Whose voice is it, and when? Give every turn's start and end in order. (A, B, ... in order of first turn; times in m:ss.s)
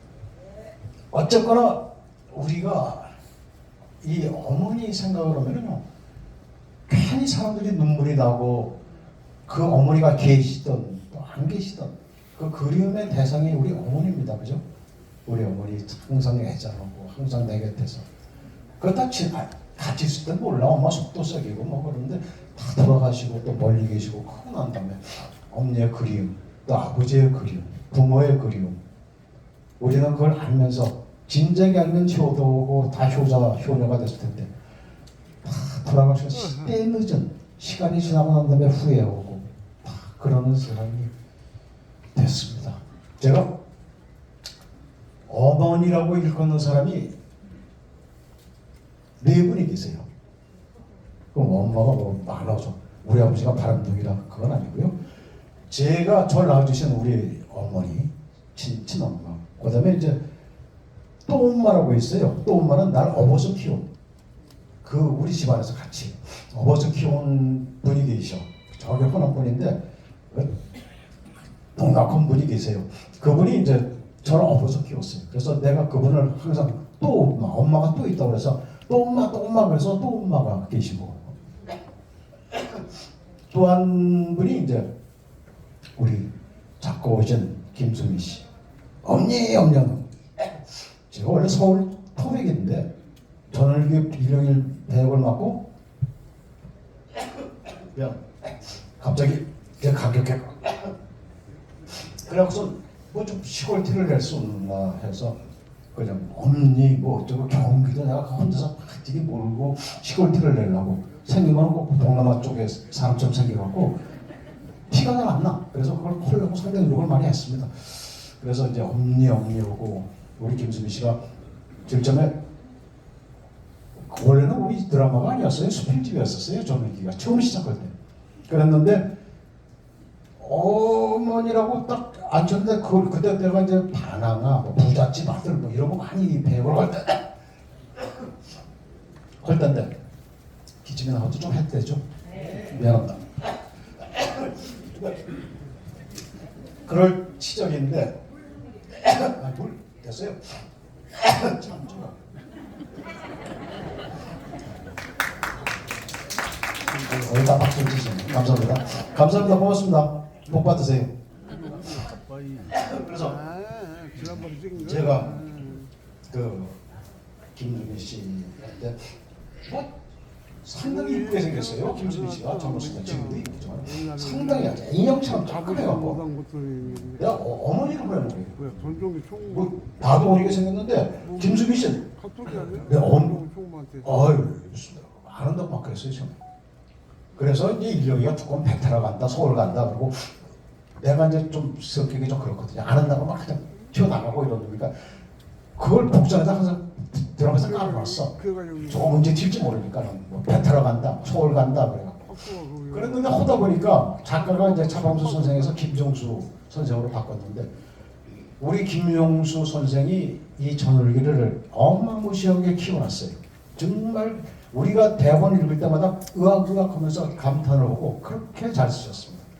0:01.1-0:03.1 A
0:04.0-0:05.8 A
0:06.9-0:08.8 A
0:09.5-0:14.6 A
0:15.3-0:18.1 A
0:18.8-0:28.8 A
0:29.8-0:34.5 A
0:35.4-0:41.1 A
0:42.1-0:43.5 A
0:45.3-0:47.1 A
0:49.2-0:50.1 A
0:51.3-0:54.9 A
0:55.7-1:00.2 A
1:01.3-1:03.9 A
1:04.8-1:09.8 A
1:10.3-1:10.6 A
1:11.8-1:21.4 A
1:23.5-1:24.9 A
1:26.0-1:28.5 A
1:29.0-1:30.5 A
1:31.1-1:32.9 A
1:33.5-1:35.6 A
1:37.7-1:38.3 A
1:39.0-1:41.0 A
1:41.9-1:45.4 A
1:45.9-1:54.0 A
1:54.9-2:01.2 A
2:01.8-2:02.4 A
2:04.1-2:07.9 A
2:08.5-2:09.1 A
2:10.4-2:17.2 A
2:19.4-2:19.9 A
2:20.8-2:23.4 A
2:24.1-2:25.1 A
2:26.9-2:28.2 A
2:29.0-2:32.2 A
2:37.1-2:41.2 A
2:42.7-2:43.4 A
2:43.5-2:44.7 B
2:44.2-2:45.4 A
2:46.3-2:46.8 A
2:47.5-2:49.1 A
2:50.6-2:56.2 A
2:56.2-2:57.0 B
2:57.0-2:58.8 A
2:58.7-2:59.5 B
2:59.5-3:03.4 A
3:02.1-3:02.6 B
3:03.4-3:04.0 B
3:04.0-3:06.4 A
3:07.4-3:10.4 A
3:11.0-3:14.9 A
3:15.8-3:27.7 A
3:18.4-3:18.9 B
3:22.5-3:22.8 B
3:28.6-3:39.5 A